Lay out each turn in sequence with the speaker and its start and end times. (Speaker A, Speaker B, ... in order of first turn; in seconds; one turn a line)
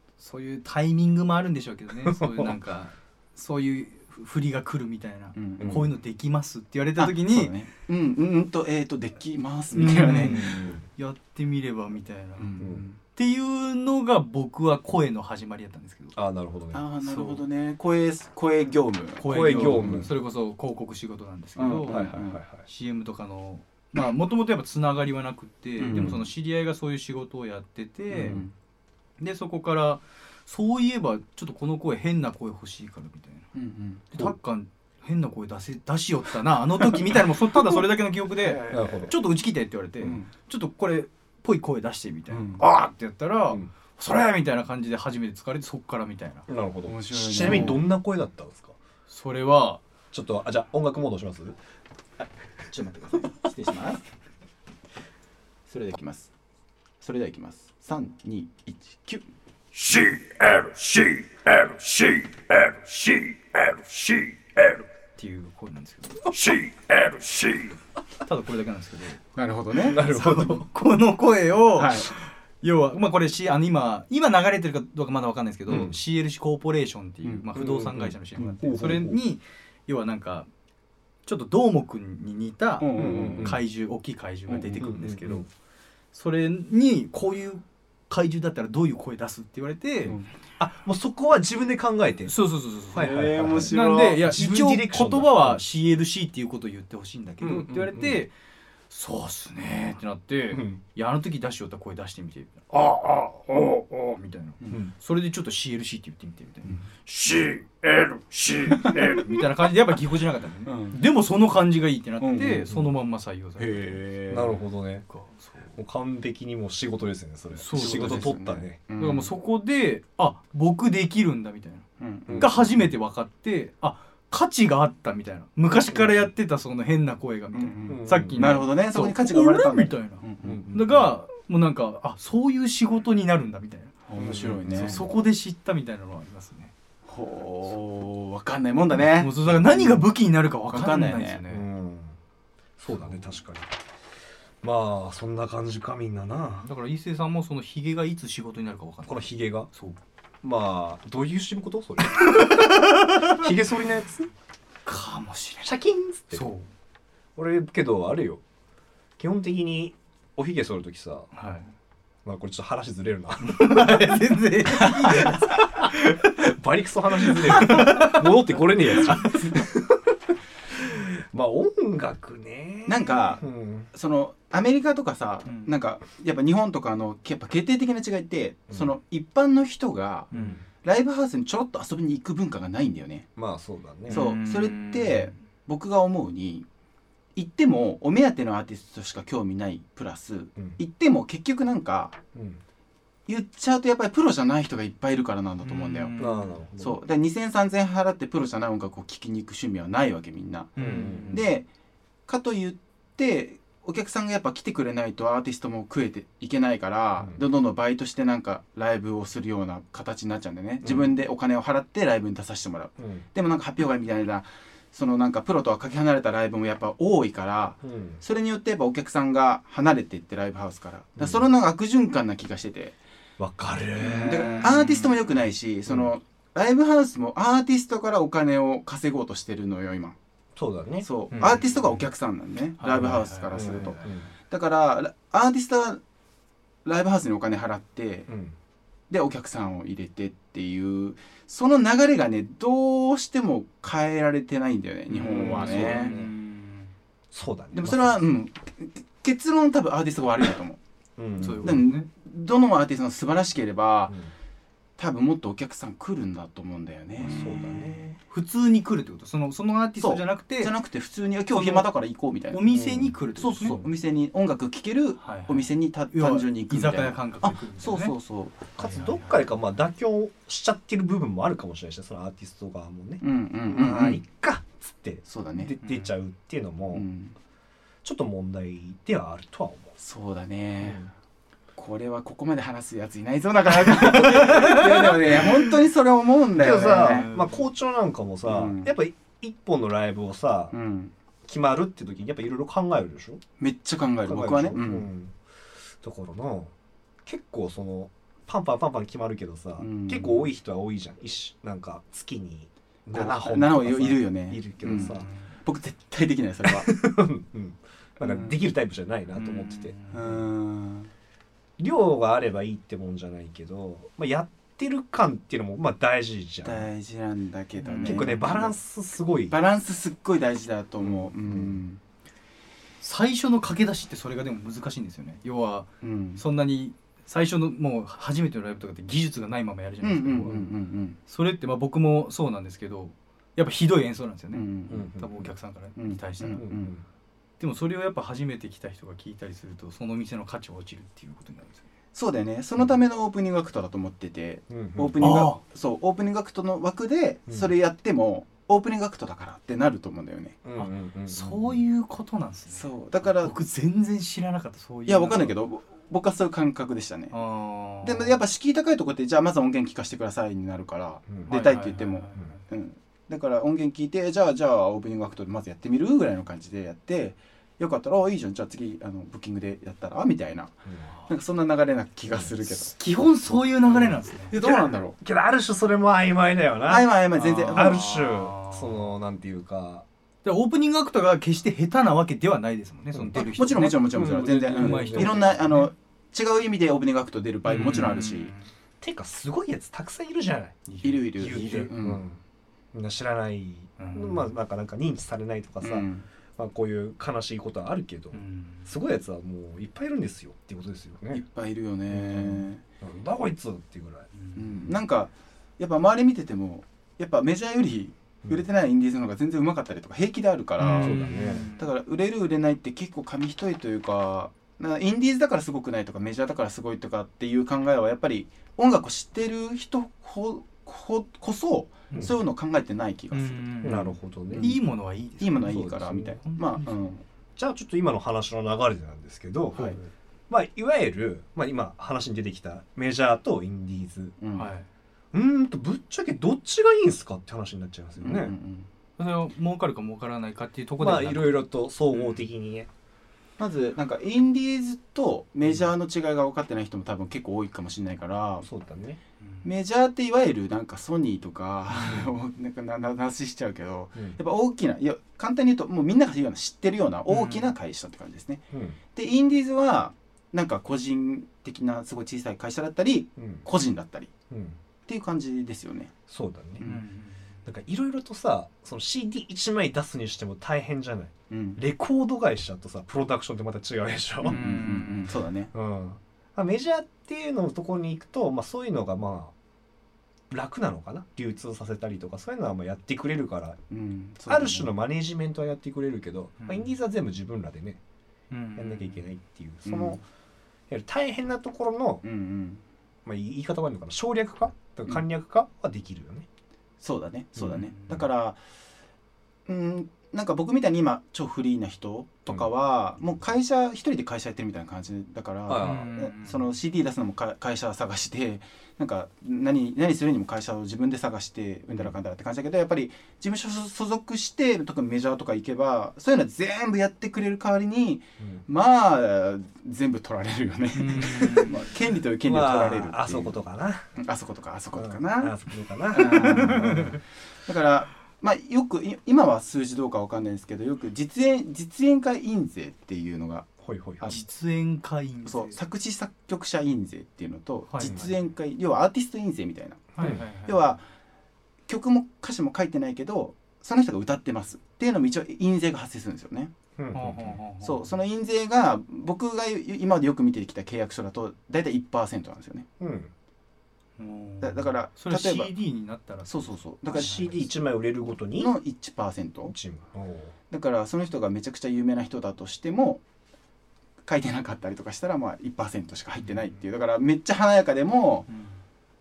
Speaker A: 0.2-7.5
Speaker B: 2.0-2.6
Speaker C: 5.3-5.8
Speaker B: 5.6-5.9
Speaker C: 7.0-10.7
Speaker A: 9.7-12.5
Speaker B: 10.1-10.8
Speaker C: 12.4-13.0
Speaker A: 13.1-16.2
Speaker B: 16.1-16.8
Speaker C: 16.7-20.1
Speaker A: 17.0-17.4
Speaker A: 19.2-28.4
Speaker B: 19.2-20.1
Speaker C: 21.6-22.4
Speaker B: 21.8-22.6
Speaker C: 25.8-26.2
Speaker B: 25.9-26.2
Speaker C: 28.1-28.5
Speaker A: 29.2-33.5
Speaker C: 33.5-34.0
Speaker A: 34.1-46.5
Speaker B: 38.7-39.2
Speaker C: 40.0-40.3
Speaker C: 42.3-42.6
Speaker B: 46.5-48.8
Speaker C: 46.9-47.8
Speaker A: 47.4-47.8
Speaker A: 49.1-49.8
Speaker B: 50.1-51.6
Speaker A: 52.7-54.0
Speaker C: 55.7-56.3
Speaker C: 57.0-59.2
Speaker A: 59.8-69.2
Speaker C: 69.4-70.0
Speaker B: 69.8-70.7
Speaker A: 69.9-80.5
Speaker C: 71.8-72.1
Speaker B: 75.7-76.0
Speaker B: 77.5-79.2
Speaker A: 81.3-85.5
Speaker C: 82.8-83.5
Speaker B: 83.0-83.6
Speaker B: 84.8-85.5
Speaker A: 86.1-90.2
Speaker B: 90.6-92.4
Speaker A: 92.3-98.3
Speaker B: 92.9-95.6
Speaker C: 93.3-93.8
Speaker B: 97.4-98.2
Speaker A: 98.9-114.5
Speaker B: 100.5-100.8
Speaker B: 109.0-109.5
Speaker C: 110.7-111.0
Speaker C: 112.2-112.7
Speaker C: 113.6-114.2
Speaker B: 114.3-115.1
Speaker A: 115.1-115.7
Speaker B: 115.7-118.8
Speaker A: 117.6-118.4
Speaker C: 117.7-119.3
Speaker A: 119.0-134.0
Speaker C: 122.0-122.6
Speaker B: 122.3-122.7
Speaker C: 127.5-130.8
Speaker B: 127.9-128.6
Speaker B: 130.4-131.1
Speaker C: 134.1-135.0
Speaker B: 134.2-135.1
Speaker A: 134.7-136.7
Speaker C: 137.1-140.0
Speaker A: 139.0-141.7
Speaker C: 140.7-141.4
Speaker B: 141.5-142.2
Speaker B: 142.8-143.7
Speaker A: 142.9-143.2
Speaker B: 144.6-146.7
Speaker A: 146.4-150.0
Speaker B: 149.1-149.7
Speaker B: 150.4-154.3
Speaker A: 152.3-153.4
Speaker A: 154.9-155.7
Speaker B: 155.6-156.6
Speaker A: 156.3-156.7
Speaker B: 157.4-158.4
Speaker B: 159.2-161.3
Speaker A: 161.3-161.7
Speaker B: 162.2-164.0
Speaker A: 163.4-166.5
Speaker B: 165.0-173.9
Speaker A: 167.2-168.3
Speaker A: 168.9-169.4
Speaker C: 172.9-180.3
Speaker A: 175.5-175.7
Speaker A: 180.3-180.6
Speaker B: 180.3-180.6
Speaker C: 180.8-183.3
Speaker B: 183.4-184.2
Speaker A: 184.1-185.3
Speaker C: 184.1-186.7
Speaker C: 187.4-192.2
Speaker B: 192.3-192.6
Speaker C: 193.3-196.2
Speaker A: 195.6-196.6
Speaker B: 196.2-197.0
Speaker C: 196.8-200.8
Speaker A: 200.8-201.5
Speaker B: 200.8-201.4
Speaker C: 201.3-201.7
Speaker C: 202.3-222.9
Speaker B: 213.0-213.3
Speaker B: 217.8-218.2
Speaker B: 221.2-221.5
Speaker B: 223.4-224.7
Speaker A: 224.0-225.3
Speaker C: 224.2-230.2
Speaker B: 230.6-231.5
Speaker C: 231.0-234.0
Speaker A: 231.3-232.0
Speaker A: 232.8-234.2
Speaker B: 233.0-234.3
Speaker C: 234.5-236.0
Speaker C: 236.8-238.3
Speaker B: 238.3-238.6
Speaker C: 239.1-246.1
Speaker B: 245.1-246.3
Speaker A: 245.2-246.9
Speaker B: 247.3-248.2
Speaker C: 247.7-250.8
Speaker B: 251.2-251.8
Speaker A: 251.4-252.1
Speaker C: 251.6-254.2
Speaker C: 255.0-258.2
Speaker B: 257.2-258.1
Speaker A: 257.4-260.7
Speaker C: 260.0-262.6
Speaker A: 261.5-261.9
Speaker A: 262.5-263.8
Speaker B: 262.7-263.9
Speaker C: 263.4-269.4
Speaker A: 265.2-268.1
Speaker B: 268.8-277.1
Speaker C: 273.2-274.2
Speaker C: 275.2-275.7
Speaker A: 275.8-276.1
Speaker C: 276.9-277.4
Speaker B: 278.0-280.0
Speaker C: 280.0-281.0
Speaker B: 280.8-281.1
Speaker C: 281.8-287.3
Speaker A: 283.9-285.5
Speaker B: 286.6-290.8
Speaker A: 286.7-287.7
Speaker C: 288.5-288.9
Speaker C: 290.7-291.1
Speaker B: 291.4-293.4
Speaker C: 293.6-295.1
Speaker B: 294.3-295.4
Speaker B: 296.0-296.7
Speaker B: 297.2-305.3
Speaker C: 299.8-300.5
Speaker C: 303.1-306.9
Speaker A: 304.9-305.5
Speaker B: 306.6-309.9
Speaker C: 308.2-308.6
Speaker A: 309.3-310.4
Speaker C: 310.1-311.1
Speaker B: 311.8-316.9
Speaker C: 316.6-318.8
Speaker A: 317.8-318.6
Speaker B: 318.1-319.6
Speaker C: 319.5-322.0
Speaker B: 321.0-321.8
Speaker A: 323.0-330.5
Speaker C: 326.0-326.4
Speaker C: 330.0-331.2
Speaker A: 331.3-336.7
Speaker C: 334.5-335.1
Speaker B: 334.9-335.5
Speaker C: 336.0-336.9
Speaker B: 336.6-337.0
Speaker A: 337.6-341.9
Speaker C: 342.1-350.6
Speaker B: 344.7-345.2
Speaker A: 345.2-345.6
Speaker B: 347.5-347.7
Speaker B: 350.6-351.8
Speaker A: 350.8-355.5
Speaker C: 352.7-353.6
Speaker C: 355.1-357.3
Speaker A: 357.3-358.4
Speaker C: 358.0-372.9
Speaker A: 361.5-362.6
Speaker A: 372.6-374.5
Speaker B: 373.9-377.1
Speaker C: 374.5-375.2
Speaker C: 376.9-378.0
Speaker A: 377.4-379.1
Speaker B: 377.7-380.1
Speaker A: 380.4-385.9
Speaker B: 383.1-383.4
Speaker C: 383.3-388.5
Speaker B: 384.0-385.6
Speaker A: 387.7-388.7
Speaker B: 389.0-392.4
Speaker A: 390.9-391.1
Speaker C: 391.0-392.2
Speaker B: 392.9-401.4
Speaker A: 394.0-394.5
Speaker C: 395.8-396.3
Speaker A: 398.3-398.9
Speaker C: 401.3-402.8
Speaker B: 402.1-404.3
Speaker A: 404.3-404.9
Speaker C: 404.6-411.3
Speaker A: 410.8-411.9
Speaker B: 411.0-411.7
Speaker C: 411.8-424.0
Speaker A: 422.1-422.4
Speaker A: 423.3-427.2
Speaker B: 423.8-424.8
Speaker C: 424.5-424.8
Speaker C: 425.4-427.2
Speaker B: 425.7-426.4
Speaker B: 427.6-430.0
Speaker C: 429.7-430.0
Speaker B: 430.5-434.4
Speaker C: 434.4-434.7
Speaker A: 434.6-434.9
Speaker B: 435.3-438.6
Speaker C: 438.2-438.9
Speaker A: 439.2-442.4
Speaker B: 441.0-442.9
Speaker C: 443.6-448.7
Speaker B: 448.6-449.2
Speaker A: 449.4-449.7
Speaker C: 449.6-458.6
Speaker A: 457.3-457.7
Speaker B: 458.7-459.0
Speaker C: 459.1-464.3
Speaker B: 463.4-463.7
Speaker B: 464.5-464.8
Speaker C: 465.1-466.1
Speaker B: 466.3-466.8
Speaker A: 466.8-467.5
Speaker B: 467.6-474.8
Speaker C: 471.5-471.8
Speaker C: 474.4-475.7
Speaker A: 474.4-475.3
Speaker B: 475.7-479.5
Speaker B: 480.5-483.8
Speaker C: 483.9-484.9
Speaker B: 484.5-488.0
Speaker A: 486.6-486.9
Speaker A: 488.5-489.3
Speaker B: 488.8-490.2
Speaker C: 489.9-490.2
Speaker B: 490.9-492.2
Speaker C: 492.2-492.8
Speaker B: 493.2-496.5
Speaker C: 497.0-498.6
Speaker A: 497.7-498.2
Speaker C: 499.7-523.6
Speaker B: 505.7-506.1
Speaker A: 505.8-506.6
Speaker A: 521.0-521.9
Speaker B: 522.5-524.1
Speaker C: 524.1-525.6
Speaker B: 525.0-527.2
Speaker C: 526.1-533.7
Speaker A: 526.4-527.2
Speaker B: 533.8-534.3
Speaker C: 534.2-534.5
Speaker A: 534.3-535.9
Speaker C: 535.5-541.0
Speaker A: 537.9-538.2
Speaker B: 538.0-538.3
Speaker A: 540.1-540.9
Speaker B: 540.2-540.4
Speaker C: 541.9-546.7
Speaker B: 547.0-547.6
Speaker A: 547.1-548.1
Speaker C: 547.8-552.9
Speaker B: 553.0-553.3
Speaker A: 554.2-557.6
Speaker C: 554.6-555.7
Speaker C: 556.5-557.7
Speaker B: 557.1-558.7
Speaker C: 558.6-559.7
Speaker B: 559.6-560.5
Speaker C: 560.7-563.2
Speaker C: 564.3-568.5
Speaker A: 568.5-568.8